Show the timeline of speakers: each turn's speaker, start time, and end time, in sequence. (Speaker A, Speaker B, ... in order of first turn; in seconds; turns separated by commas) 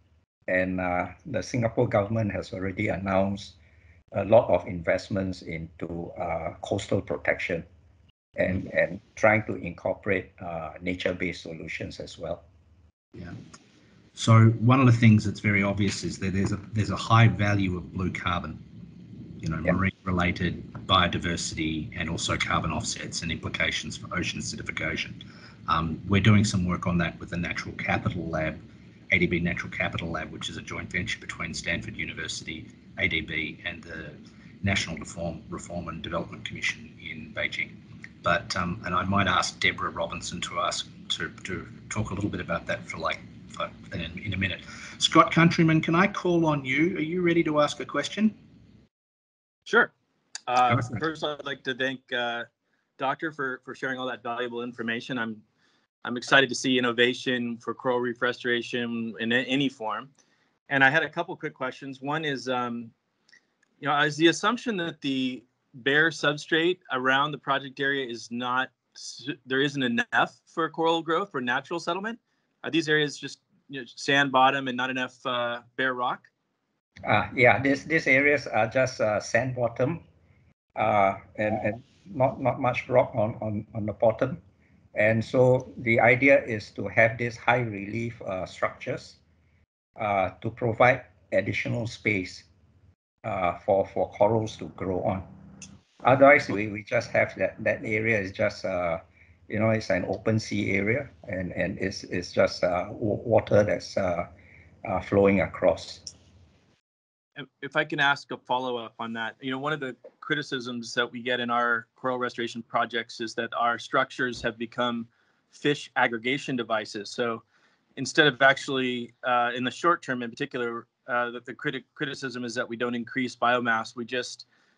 Speaker A: 0.5-3.5, Speaker A: 4.1-7.6, Speaker A: 8.4-12.4, Speaker B: 14.1-18.6, Speaker B: 19.4-28.6, Speaker B: 29.1-48.4, Speaker C: 49.7-49.9, Speaker C: 50.5-52.5, Speaker B: 50.7-51.0, Speaker C: 53.0-55.4, Speaker C: 56.0-60.1, Speaker C: 60.7-62.9, Speaker C: 63.8-76.3, Speaker A: 77.0-80.0, Speaker A: 80.8-84.4, Speaker A: 85.0-89.2, Speaker A: 90.0-92.4, Speaker A: 93.2-95.2, Speaker A: 96.0-104.3, Speaker A: 104.8-106.1, Speaker C: 107.4-117.4, Speaker C: 118.0-124.4